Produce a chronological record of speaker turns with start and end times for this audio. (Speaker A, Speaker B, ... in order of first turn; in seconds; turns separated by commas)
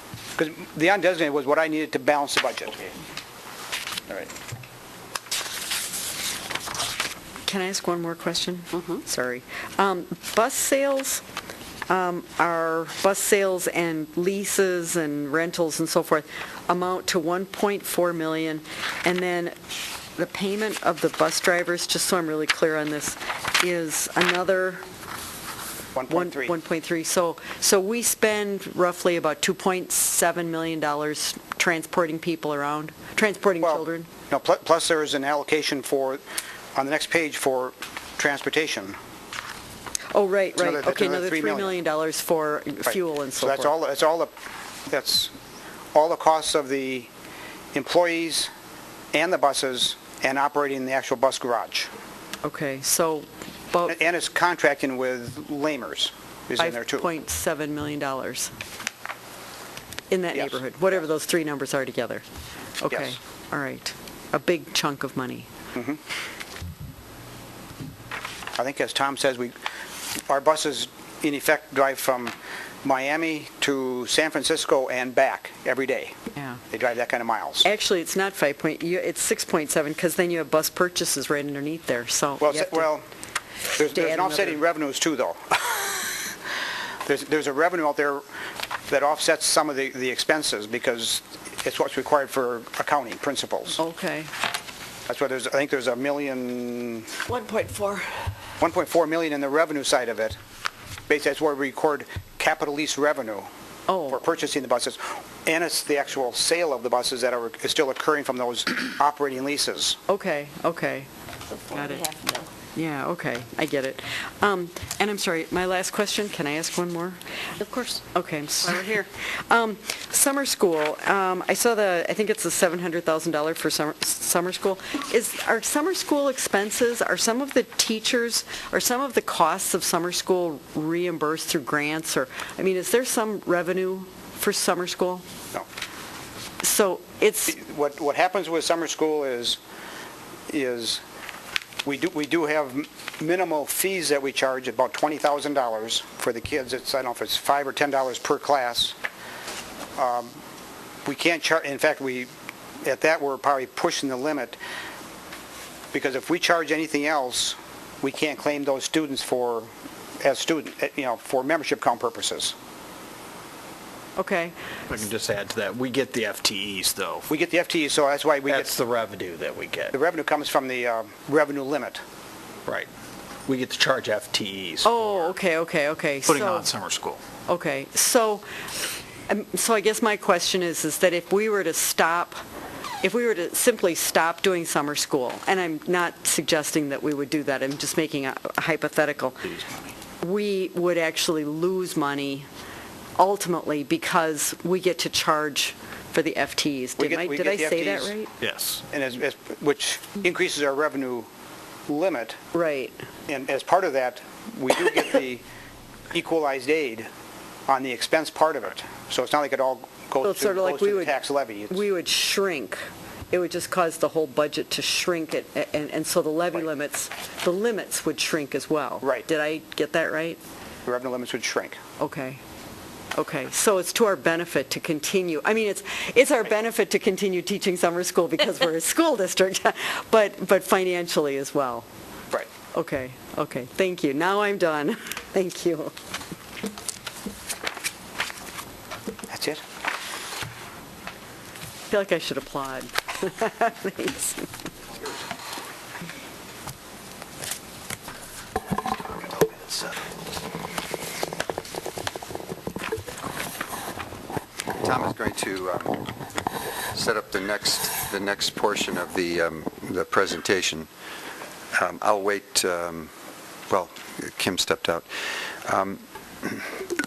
Speaker A: 0.4-2.8, Speaker B: 7.5-11.2, Speaker B: 11.9-19.6, Speaker B: 20.1-24.8, Speaker A: 25.9-26.5, Speaker B: 26.1-34.1, Speaker A: 33.6-36.2, Speaker A: 36.7-39.0, Speaker B: 40.1-43.7, Speaker A: 40.6-41.7, Speaker A: 42.9-44.3, Speaker A: 44.9-45.3, Speaker A: 45.9-47.1, Speaker A: 47.7-48.5, Speaker A: 49.1-51.9, Speaker B: 52.4-53.9, Speaker A: 53.9-57.1, Speaker B: 56.6-58.5, Speaker B: 60.1-62.2, Speaker A: 60.3-61.0, Speaker B: 62.8-65.5, Speaker A: 62.9-63.1, Speaker A: 65.7-66.0, Speaker A: 68.6-69.5, Speaker A: 70.3-76.1, Speaker A: 76.7-77.7, Speaker B: 77.6-82.9, Speaker A: 82.4-83.0, Speaker A: 83.8-86.1, Speaker B: 83.8-84.6, Speaker A: 87.0-88.2, Speaker A: 88.9-93.8, Speaker B: 93.8-94.3, Speaker A: 95.1-97.2, Speaker C: 97.3-98.1, Speaker A: 98.6-100.3, Speaker A: 101.1-103.5, Speaker B: 103.9-104.2, Speaker A: 104.1-110.0, Speaker B: 110.1-111.1, Speaker B: 111.7-112.1, Speaker C: 111.7-112.5, Speaker B: 112.7-117.2, Speaker C: 117.6-118.0, Speaker B: 118.0-135.2, Speaker B: 136.6-137.6, Speaker A: 137.5-139.6, Speaker A: 140.5-141.0, Speaker A: 141.8-148.9, Speaker A: 149.9-150.3, Speaker A: 151.1-152.3, Speaker A: 152.8-154.6, Speaker A: 155.9-159.7, Speaker A: 160.2-162.5, Speaker B: 164.2-164.5, Speaker D: 164.9-167.3, Speaker A: 167.3-168.7, Speaker D: 168.5-169.9, Speaker A: 169.9-172.0, Speaker D: 173.5-175.3, Speaker B: 174.8-176.7, Speaker D: 176.3-177.2, Speaker B: 177.5-178.4, Speaker B: 179.3-182.4, Speaker B: 183.0-189.5, Speaker B: 190.2-192.4, Speaker B: 193.2-198.3, Speaker A: 197.0-198.1, Speaker D: 198.4-198.8, Speaker A: 198.9-201.3, Speaker A: 201.9-202.4, Speaker B: 202.5-202.9, Speaker A: 203.3-205.4, Speaker A: 206.1-207.1, Speaker A: 207.7-211.8, Speaker B: 210.2-211.2, Speaker B: 211.7-220.4, Speaker A: 220.8-221.8, Speaker B: 222.0-222.4, Speaker B: 223.1-231.8, Speaker B: 232.7-235.9, Speaker A: 239.3-239.6, Speaker B: 241.9-244.5, Speaker E: 254.8-256.0, Speaker E: 256.9-260.9, Speaker E: 261.7-263.1, Speaker E: 263.7-266.7